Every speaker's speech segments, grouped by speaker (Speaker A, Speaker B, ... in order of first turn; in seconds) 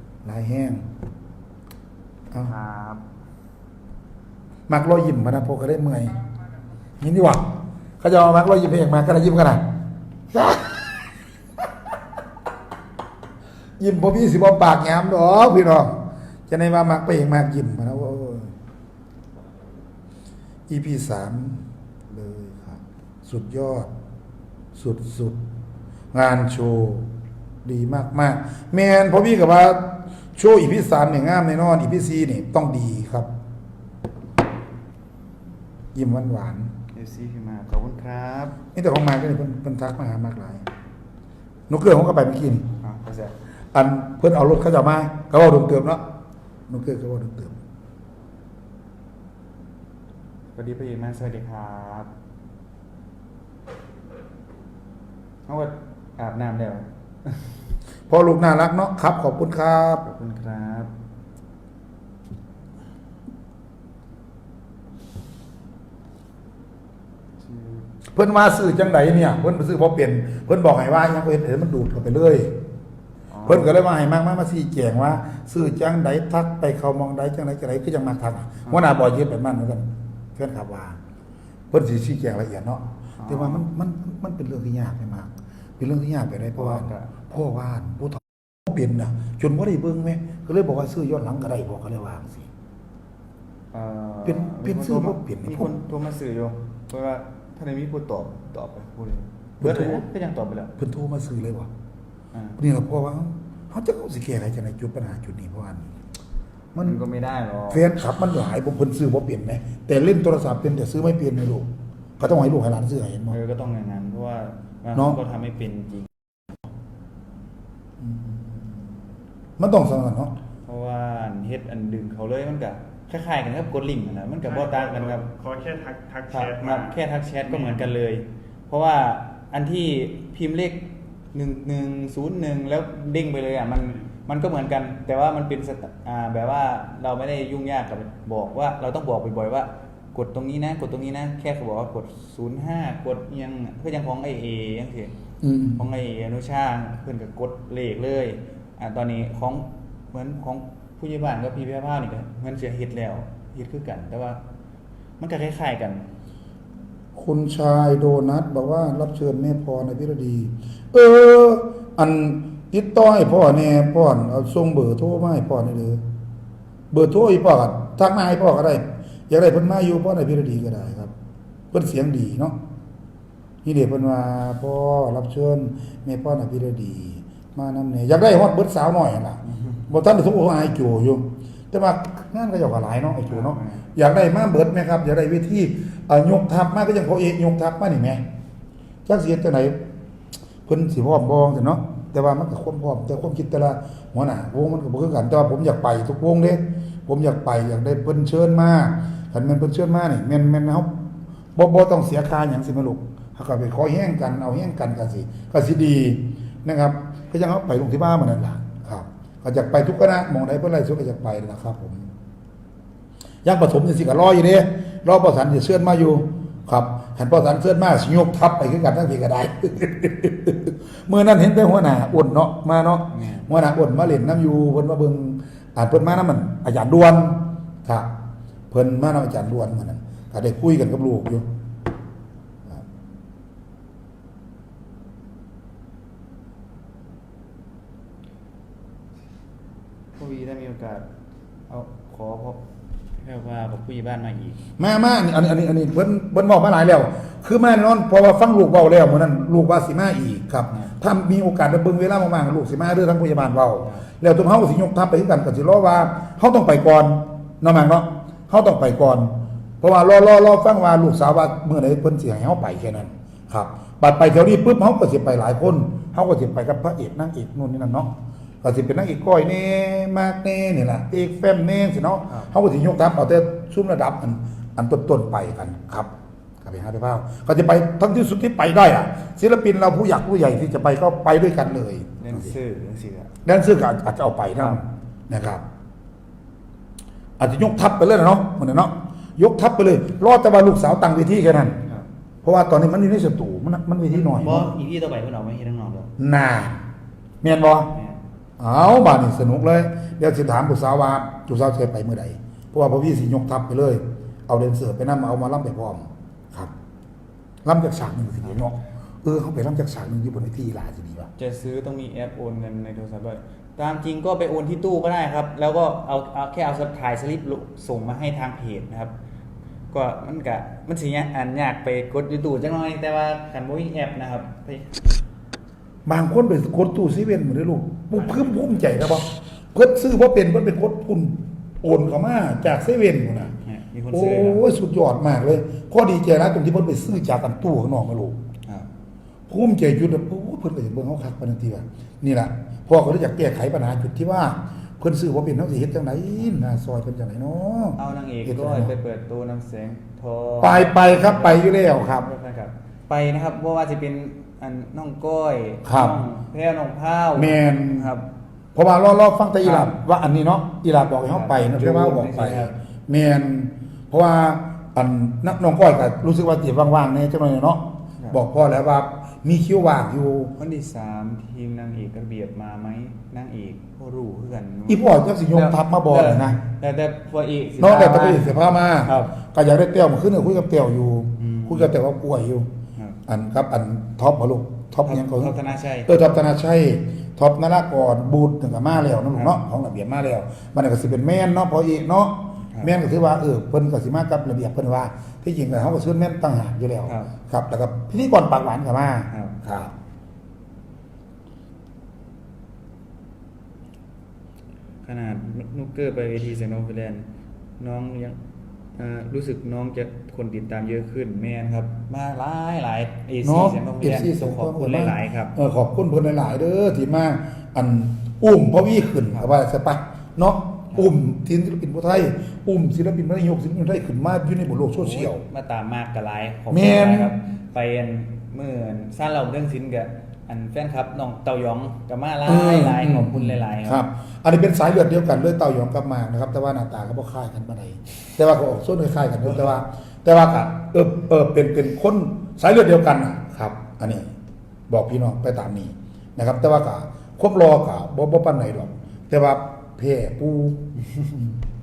Speaker A: 0.2-0.8, 4.7-6.2, 7.0-9.7, 10.3-11.1, 13.8-18.5, 20.7-23.9, 24.7-25.4, 26.1-27.1, 27.6-33.3, 35.9-36.7, 38.7-40.6, 41.7-42.7, 43.7-46.0, 46.7-47.6, 58.1-60.0, 68.1-72.5, 73.4-81.0, 81.7-92.5, 94.2-95.7, 99.6-100.0, 100.8-101.7, 102.6-105.9, 106.7-107.0, 107.7-113.4, 118.0-118.6, 119.6-120.3, 145.4-145.8, 157.1-166.0, 166.9-171.1, 171.7-172.6, 173.6-188.2, 189.1-189.8, 190.7-201.0, 201.5-212.1, 213.4-228.2, 228.7-231.5, 244.8-282.5, 283.4-285.6, 287.4-291.8, 292.4-294.7, 296.2-296.8, 297.4-297.9, 298.6-306.7, 307.6-311.3, 326.1-333.5, 334.1-338.4, 339.5-348.9, 350.6-352.2, 355.8-356.2, 357.4-358.1, 358.7-370.5, 374.9-376.6, 377.8-382.7, 383.2-399.9, 413.4-425.4, 426.7-427.3, 432.5-444.3, 444.9-451.5
Speaker B: 2.4-3.0, 36.9-38.6, 42.8-43.3, 50.5-52.1, 55.5-57.5, 60.0-60.9, 67.4-67.8, 73.3-73.7, 78.6-78.9, 83.2-83.7, 86.6-87.1, 93.7-100.7, 102.3-102.6, 106.8-107.8, 113.3-116.1, 120.7-125.3, 126.3-145.1, 145.8-154.4, 155.2-156.1, 179.5-179.8, 183.3-183.8, 223.1-223.5, 240.2-241.1, 241.7-242.6, 243.2-244.6, 282.2-283.3, 294.1-296.1, 297.9-298.2, 311.4-319.1, 319.9-325.0, 333.6-334.6, 348.0-358.2, 359.6-360.0, 361.3-362.7, 370.6-378.5, 379.0-379.3, 381.4-381.9, 385.0-386.1, 397.0-397.3, 405.0-407.3, 407.8-408.4, 408.9-415.5, 425.0-434.0
Speaker C: 124.4-127.9